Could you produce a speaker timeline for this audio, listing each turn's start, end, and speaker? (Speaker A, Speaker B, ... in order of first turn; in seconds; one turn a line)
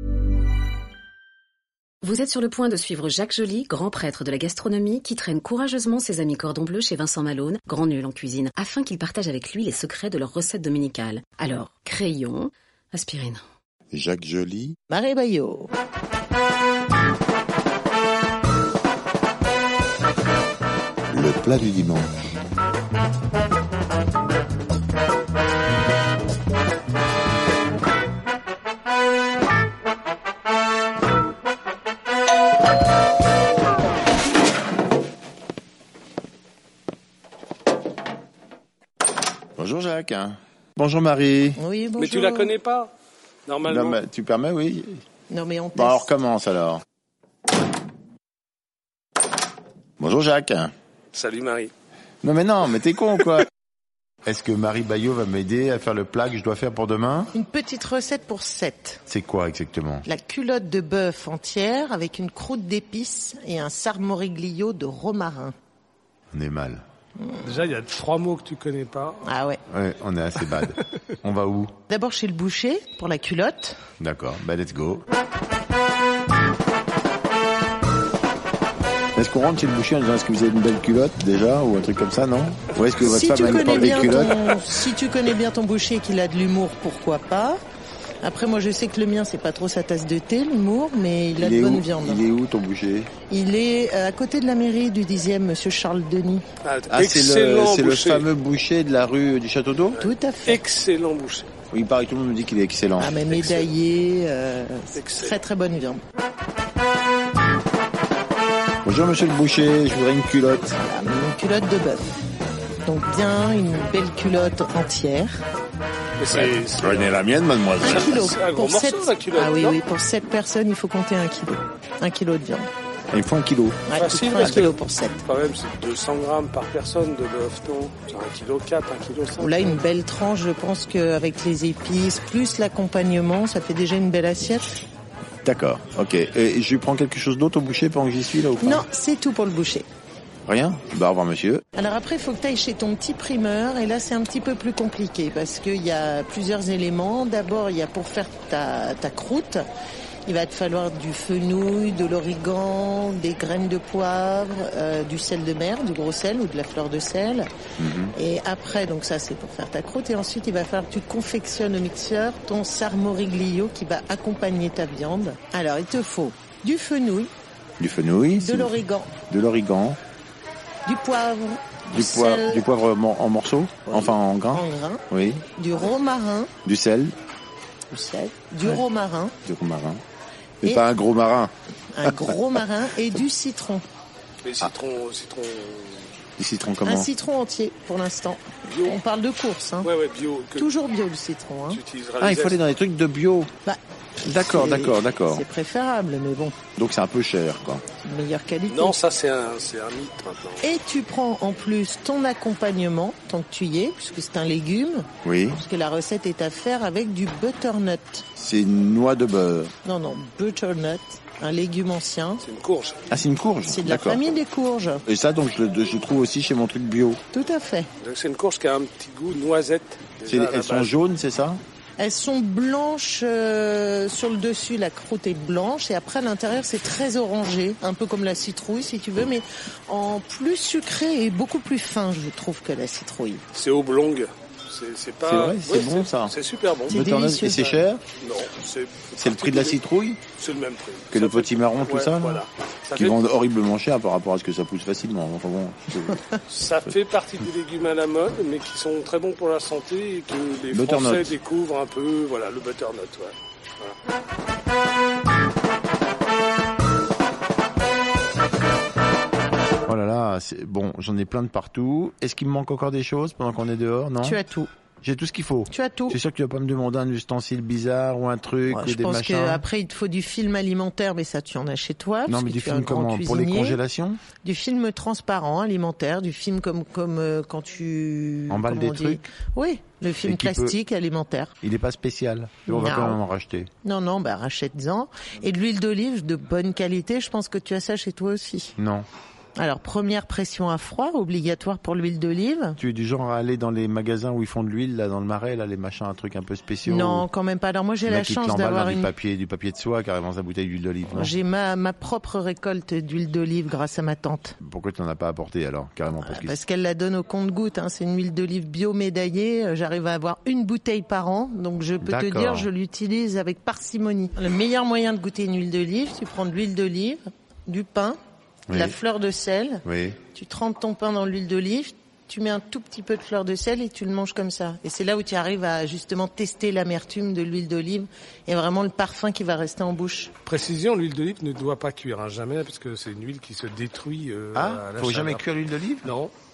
Speaker A: 2.0-13.4
Speaker B: 13.9-14.8
Speaker C: 14.9-15.7
Speaker B: 21.1-22.1
Speaker B: 39.6-41.6
Speaker C: 41.6-42.5
Speaker D: 42.0-42.9
Speaker D: 43.5-44.0
Speaker B: 43.6-45.0
Speaker C: 45.3-46.1
Speaker B: 45.8-46.8
Speaker B: 50.0-50.7
Speaker D: 51.1-51.7
Speaker B: 52.2-53.5
Speaker B: 54.2-57.3
Speaker C: 57.3-59.0
Speaker B: 59.1-60.1
Speaker C: 60.0-65.5
Speaker B: 66.3-66.8
Speaker C: 67.2-67.5
Speaker D: 67.4-69.2
Speaker C: 69.2-69.6
Speaker B: 69.7-71.8
Speaker C: 71.9-73.8
Speaker B: 74.0-75.1
Speaker B: 79.2-84.4
Speaker C: 83.0-87.6
Speaker D: 83.8-84.5
Speaker C: 88.2-92.2
Speaker B: 91.4-93.1
Speaker C: 93.3-96.5
Speaker D: 96.6-98.3
Speaker B: 96.9-100.0
Speaker D: 100.0-101.5
Speaker C: 100.0-100.6
Speaker B: 101.7-103.2
Speaker C: 103.0-106.0
Speaker D: 103.3-103.7
Speaker D: 105.0-105.4
Speaker B: 108.8-110.8
Speaker C: 110.8-112.1
Speaker C: 112.8-115.4
Speaker D: 116.2-117.2
Speaker B: 116.3-118.3
Speaker D: 117.8-119.8
Speaker C: 117.8-122.7
Speaker B: 123.1-124.6
Speaker C: 123.9-125.2
Speaker D: 124.0-129.8
Speaker C: 129.4-134.8
Speaker B: 135.4-138.8
Speaker C: 138.6-139.9
Speaker B: 140.4-141.6
Speaker C: 141.7-149.7
Speaker C: 150.3-157.5
Speaker B: 157.8-158.2
Speaker C: 158.1-167.3
Speaker B: 167.8-170.0
Speaker C: 168.4-169.2
Speaker C: 170.9-172.6
Speaker B: 171.9-175.4
Speaker C: 173.9-175.0
Speaker C: 175.6-176.5
Speaker B: 176.6-177.2
Speaker C: 177.9-179.4
Speaker B: 179.4-180.0
Speaker B: 180.6-181.5
Speaker C: 181.9-183.8
Speaker B: 182.0-182.3
Speaker D: 184.4-186.1
Speaker B: 186.4-187.1
Speaker C: 186.9-189.9
Speaker D: 188.7-189.0
Speaker D: 189.8-190.7
Speaker C: 190.6-191.8
Speaker D: 191.7-192.6
Speaker B: 192.2-193.5
Speaker C: 193.6-196.6
Speaker B: 194.2-195.4
Speaker B: 196.8-197.8
Speaker C: 198.0-199.0
Speaker D: 198.7-200.7
Speaker C: 200.6-208.3
Speaker B: 205.2-205.6
Speaker B: 208.4-209.7
Speaker C: 209.8-212.4
Speaker D: 212.4-213.0
Speaker B: 213.1-214.2
Speaker C: 213.7-215.0
Speaker B: 215.1-217.2
Speaker C: 217.3-217.9
Speaker D: 218.0-220.9
Speaker B: 220.3-221.6
Speaker C: 222.0-233.4
Speaker D: 233.5-237.0
Speaker B: 235.2-236.3
Speaker B: 236.9-238.0
Speaker C: 236.9-237.7
Speaker D: 238.2-239.8
Speaker B: 239.2-240.2
Speaker D: 240.4-243.2
Speaker B: 241.1-242.4
Speaker B: 242.9-246.2
Speaker D: 246.5-253.9
Speaker B: 250.7-251.3
Speaker B: 259.9-264.4
Speaker C: 264.2-264.7
Speaker B: 265.0-269.6
Speaker C: 265.7-266.2
Speaker C: 268.7-273.8
Speaker B: 272.3-274.2
Speaker C: 274.4-281.6
Speaker B: 278.5-279.2
Speaker B: 280.2-280.8
Speaker B: 281.6-283.7
Speaker C: 282.7-283.2
Speaker C: 283.8-288.8
Speaker B: 288.8-289.1
Speaker C: 289.6-292.8
Speaker B: 292.8-297.3
Speaker C: 296.9-299.1
Speaker B: 298.1-301.4
Speaker C: 301.1-304.6
Speaker B: 304.6-306.6
Speaker C: 306.2-318.2
Speaker B: 312.0-312.7
Speaker B: 318.7-319.0
Speaker C: 318.7-330.4
Speaker B: 319.9-320.2
Speaker D: 330.4-335.5
Speaker B: 334.5-336.1
Speaker D: 336.0-336.3